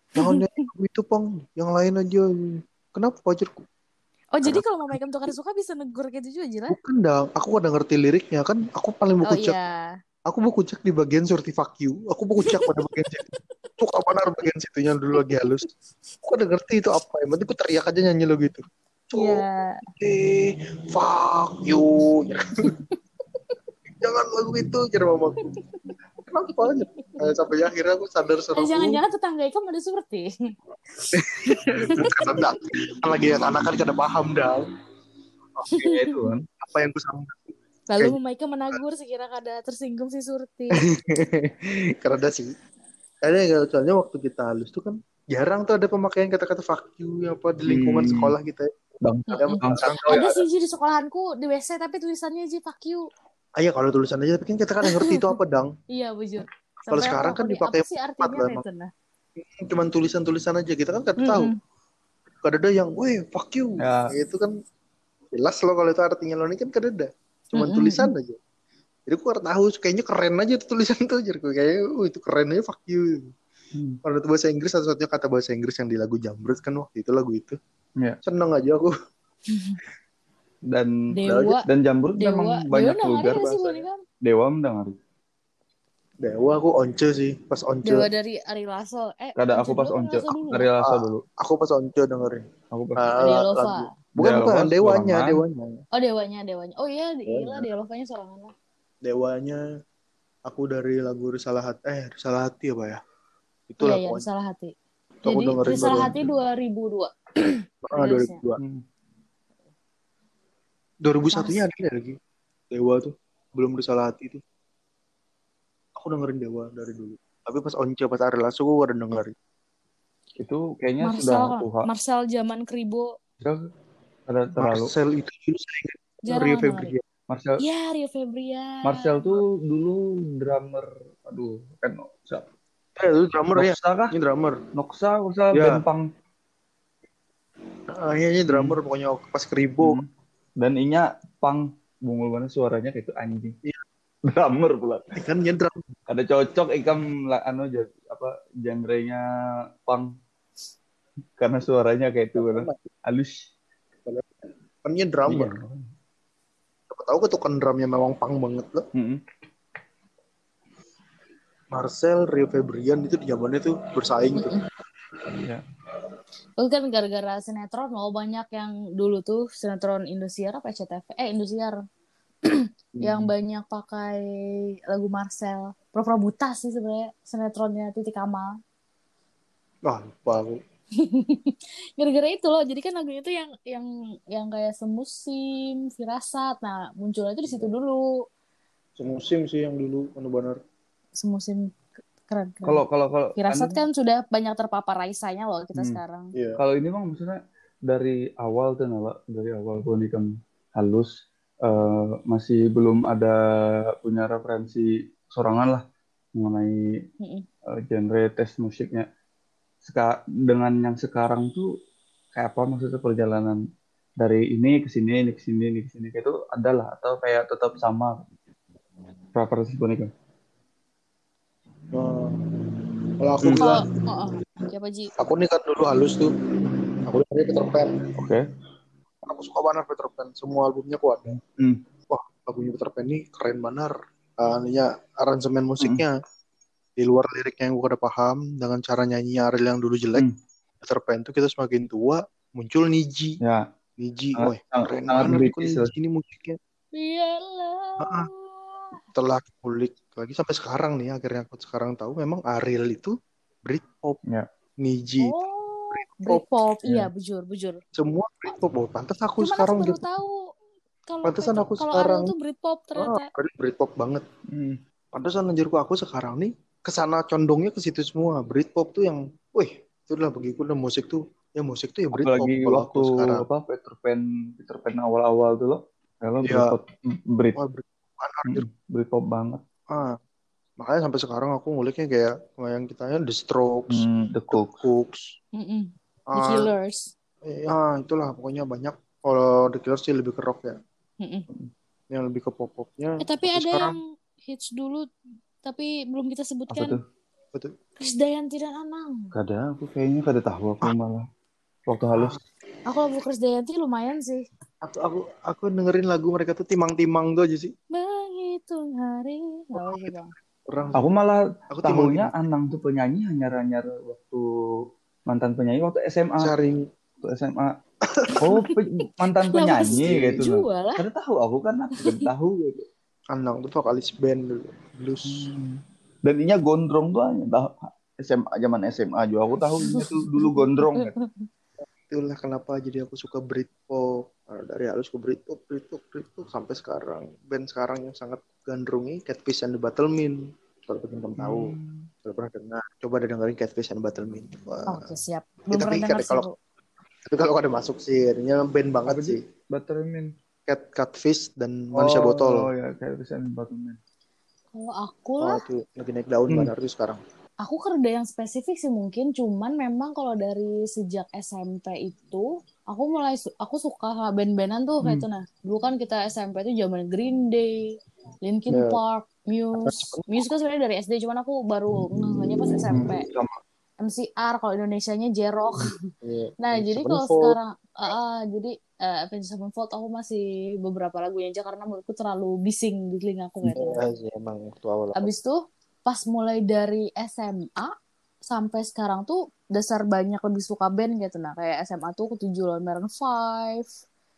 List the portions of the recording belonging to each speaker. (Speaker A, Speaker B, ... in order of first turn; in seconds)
Speaker A: 0.2-3.6, 4.4-5.3, 6.7-9.6, 10.3-13.2, 13.8-15.6, 16.2-19.4, 19.9-22.7, 24.0-25.4, 26.3-29.0, 31.1-34.6, 36.6-38.2, 41.0-42.5, 43.2-48.7, 49.3-50.0, 53.6-55.7, 56.9-58.6, 59.4-61.5, 62.4-64.5, 65.3-68.4, 69.1-73.3, 74.0-77.6, 78.2-78.9, 81.2-81.6, 83.2-83.8, 86.2-88.1, 90.8-92.4, 93.0-95.8, 97.2-97.7, 99.0-99.6, 100.5-103.0, 103.7-104.2, 105.2-106.3, 107.8-108.6, 111.0-112.1, 112.7-114.4, 116.0-119.3, 124.6-127.0, 133.0-134.6, 135.5-135.8, 137.9-140.0, 145.1-145.9, 152.3-152.8, 154.0-155.5, 156.9-158.9, 161.7-164.5, 172.9-173.3, 179.9-180.6, 189.0-190.6, 196.3-196.6, 221.9-222.7, 223.2-223.8, 225.2-226.3, 227.0-228.0, 229.2-231.4, 232.1-236.1, 237.0-240.2, 240.8-243.4, 244.0-246.6, 248.0-248.3, 249.1-254.2, 254.8-255.3, 255.9-256.4, 257.9-260.0, 261.2-262.3, 263.0-264.2, 265.1-273.4, 276.4-276.7, 277.6-278.6, 280.8-285.3, 286.3-286.7, 287.4-290.7, 292.1-293.9, 302.1-302.4, 304.8-307.7, 309.7-311.1, 311.7-312.4, 316.4-316.8, 318.0-318.4, 319.9-320.4, 323.3-325.5, 332.1-341.7, 342.2-345.1, 345.7-346.5, 347.3-349.4, 350.7-352.7, 355.4-357.2, 368.7-369.0, 369.8-370.4, 376.2-377.6, 383.8-385.3
Speaker B: 0.2-0.7, 4.3-6.8, 9.3-9.9, 12.5-13.4, 19.1-19.8, 22.6-22.9, 25.5-25.9, 28.5-30.3, 31.4-32.1, 35.7-36.1, 37.9-40.8, 49.3-53.0, 54.9-55.2, 55.9-58.9, 61.2-61.6, 67.5-68.1, 79.5-79.8, 81.1-81.6, 82.2-84.0, 87.8-90.7, 93.2-93.9, 95.9-98.5, 103.8-104.7, 105.3-108.4, 111.3-111.6, 121.0-123.1, 126.3-126.9, 127.6-129.4, 164.3-164.7, 166.6-171.8, 172.4-178.6, 181.0-188.1, 191.2-192.8, 193.4-196.3, 207.2-207.4, 223.6-225.1, 246.9-249.0, 255.2-257.8, 259.4-260.5, 261.1-263.3, 285.6-287.1, 291.2-291.4, 293.2-295.1, 295.6-297.0, 298.0-299.3, 302.9-304.4, 307.9-310.3, 318.4-318.7, 319.5-321.0, 322.0-322.3, 329.8-331.5, 344.9-346.5, 354.7-355.6, 357.6-367.9, 368.4-373.2, 374.0-376.0, 376.6-384.0, 385.1-387.9, 388.5-393.9
Speaker C: 35.8-36.5, 47.7-48.3, 49.0-50.4, 63.8-64.1, 73.7-74.0, 81.7-83.4, 84.2-85.0, 89.4-91.2, 92.7-93.0, 94.2-95.4, 120.4-121.9, 123.4-123.7, 124.3-124.9, 127.3-127.6, 128.8-132.5, 133.6-134.1, 134.7-136.0, 138.5-138.8, 139.8-140.1, 140.6-143.5, 144.3-145.1, 146.1-149.2, 149.8-150.1, 151.4-153.4, 155.3-155.9, 158.9-159.2, 192.7-193.8, 196.6-201.1, 201.6-203.3, 204.0-205.8, 206.3-206.7, 207.8-209.1, 209.8-211.7, 212.3-213.6, 214.2-218.2, 219.3-220.1, 228.2-228.4, 231.3-231.8, 243.4-243.7, 244.4-245.9, 264.5-264.8, 272.1-277.6, 278.5-279.6, 283.9-284.7, 296.7-297.0, 299.3-301.2, 301.9-302.4, 310.9-314.4, 315.3-316.5, 317.2-317.7, 318.4-322.8, 325.2-331.1, 341.4-342.1, 349.1-350.3, 351.9-354.0, 372.9-373.6